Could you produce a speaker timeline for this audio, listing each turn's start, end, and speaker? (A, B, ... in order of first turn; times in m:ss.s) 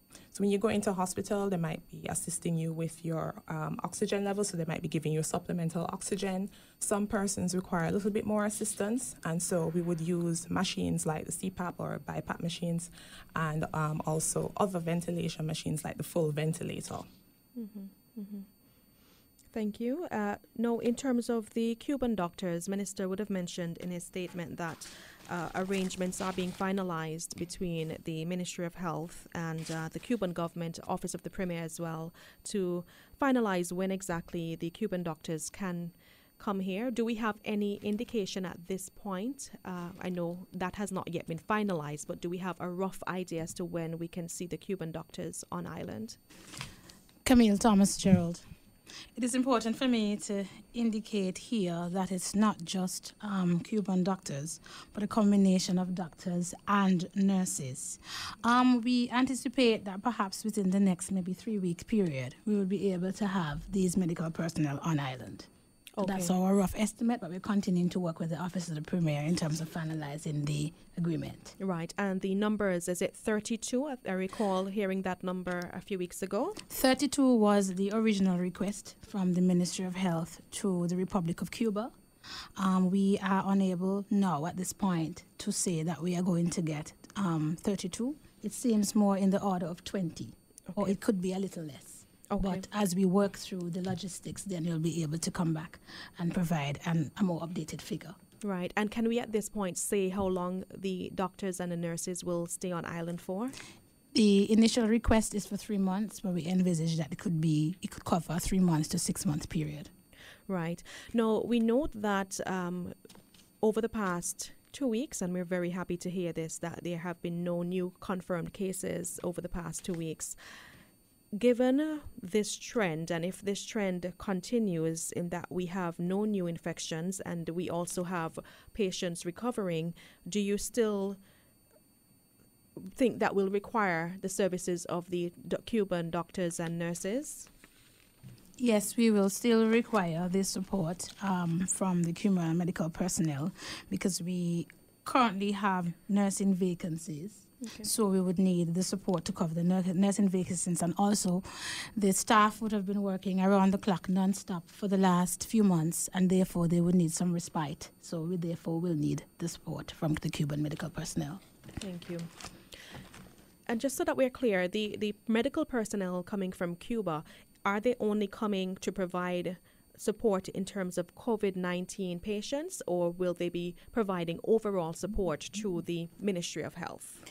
0:00.3-0:17.1 A
0:17.6-0:18.5 B
0:19.5-0:46.2 B
0:47.2-0:48.4 C
0:49.1-1:05.5 C
1:06.0-1:06.3 B
1:06.0-1:11.5 C
1:11.6-1:16.6 B
1:16.7-1:21.9 C
1:22.6-1:38.2 C
1:32.3-1:32.6 B
1:38.4-1:43.5 B
1:44.1-1:49.9 C
1:50.5-1:52.9 B
1:53.6-2:00.4 B
2:01.3-2:11.2 B
2:12.8-2:17.5 B
2:18.6-2:41.4 C
2:27.6-2:27.9 B
2:41.8-2:42.3 B
2:43.7-2:57.2 B